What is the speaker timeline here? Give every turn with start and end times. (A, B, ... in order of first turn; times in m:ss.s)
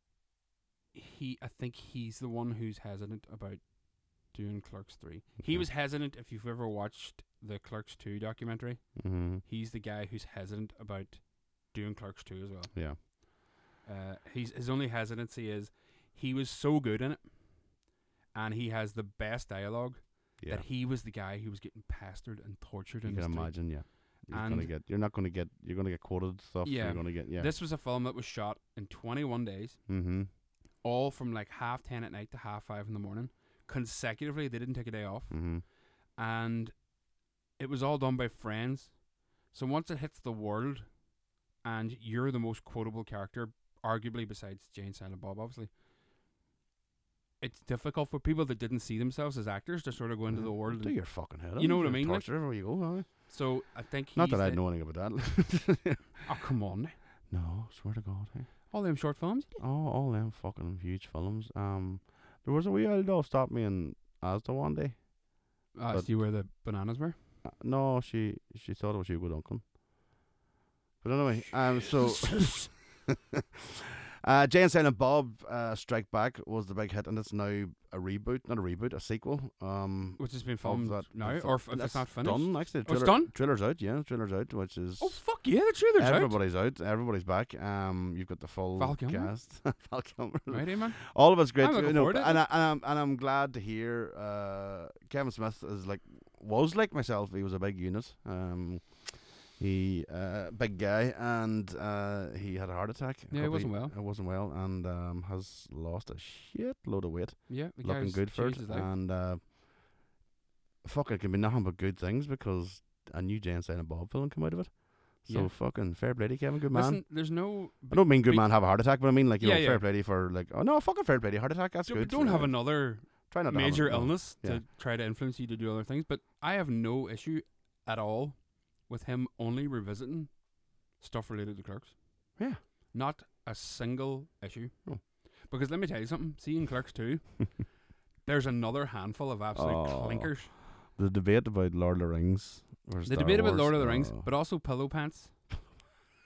0:00.9-0:13.2 A
0:05.4-0:05.7 B
0:09.0-0:09.4 B
0:12.7-0:13.0 B
0:13.8-0:17.8 A
0:18.3-0:24.7 A
0:20.4-0:20.6 B
0:23.0-0:27.5 B
0:26.6-0:29.9 A
0:29.9-0:30.3 B
0:30.8-0:36.9 A
0:35.3-0:35.6 B
0:37.6-0:41.0 A
0:41.6-0:45.7 A
0:47.4-0:54.6 A
0:50.3-0:56.0 B
0:56.2-0:57.0 A
0:57.3-0:58.7 B
0:58.7-0:59.6 A
0:59.6-1:06.5 B
1:05.7-1:07.2 A
1:07.4-1:09.6 B
1:11.0-1:13.0 B
1:14.2-1:49.5 B
1:20.2-1:23.3 A
1:25.0-1:26.4 A
1:28.8-1:29.3 A
1:30.5-1:32.4 A
1:43.3-1:43.9 A
1:47.5-1:48.9 A
1:50.8-2:04.6 B
1:55.3-1:56.1 A
1:56.7-1:59.8 A
2:01.8-2:17.7 A
2:12.4-2:12.6 B
2:18.2-2:20.5 A
2:19.6-2:24.3 B
2:23.0-2:25.4 A